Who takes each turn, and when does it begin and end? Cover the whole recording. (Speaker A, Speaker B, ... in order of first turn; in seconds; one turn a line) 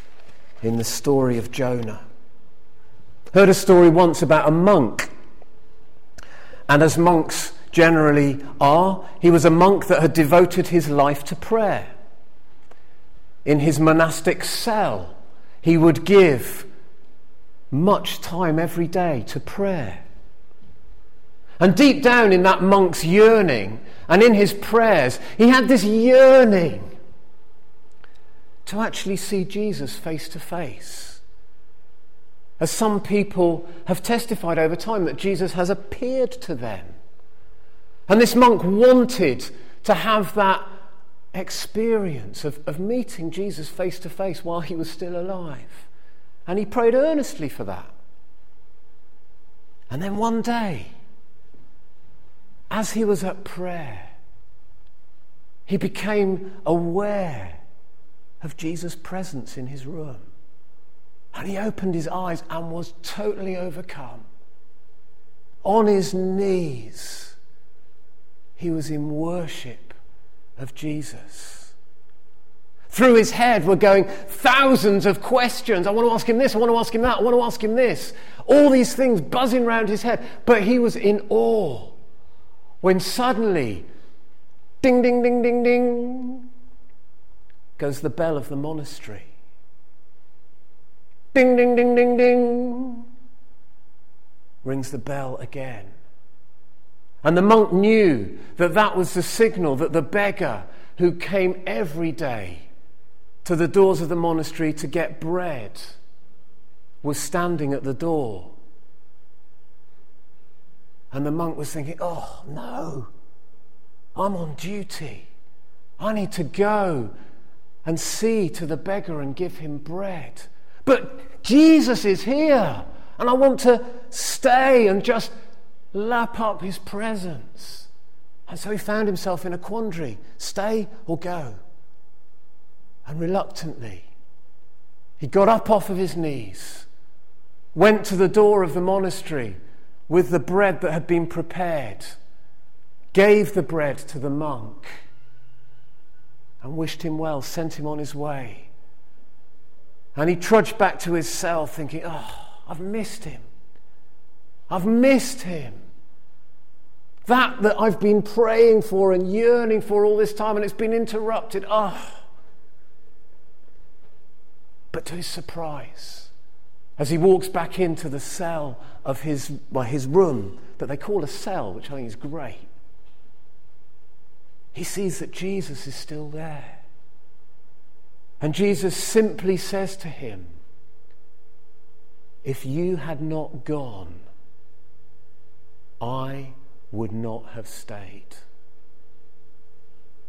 Speaker A: 0.6-2.0
Speaker A: 3.3-5.1
Speaker A: 6.7-11.9
Speaker A: 13.4-16.7
Speaker A: 17.7-20.0
Speaker A: 21.6-26.9
Speaker A: 28.6-31.2
Speaker A: 32.6-36.9
Speaker A: 38.1-40.6
Speaker A: 41.3-45.9
Speaker A: 46.5-47.9
Speaker A: 49.9-50.9
Speaker A: 52.7-54.1
Speaker A: 55.7-57.6
Speaker A: 58.4-60.3
Speaker A: 61.3-64.2
Speaker A: 65.6-67.3
Speaker A: 68.6-70.0
Speaker A: 70.6-71.7
Speaker A: 72.9-82.0
Speaker A: 82.8-83.8
Speaker A: 84.8-86.5
Speaker A: 87.8-89.3
Speaker A: 91.3-93.0
Speaker A: 94.6-95.9
Speaker A: 97.2-102.7
Speaker A: 103.4-106.0
Speaker A: 107.0-108.5
Speaker A: 111.1-113.1
Speaker A: 114.2-115.3
Speaker A: 116.0-117.1
Speaker A: 117.8-125.3
Speaker A: 125.9-127.9
Speaker A: 128.5-131.6
Speaker A: 133.0-134.1
Speaker A: 135.2-136.9
Speaker A: 137.7-139.6
Speaker A: 140.1-142.2
Speaker A: 143.1-144.9
Speaker A: 146.6-148.7
Speaker A: 150.1-153.4
Speaker A: 154.7-155.8
Speaker A: 157.2-162.2
Speaker A: 164.9-166.3
Speaker A: 167.0-172.7
Speaker A: 174.7-176.8
Speaker A: 178.4-180.5
Speaker A: 182.4-184.2
Speaker A: 186.0-188.4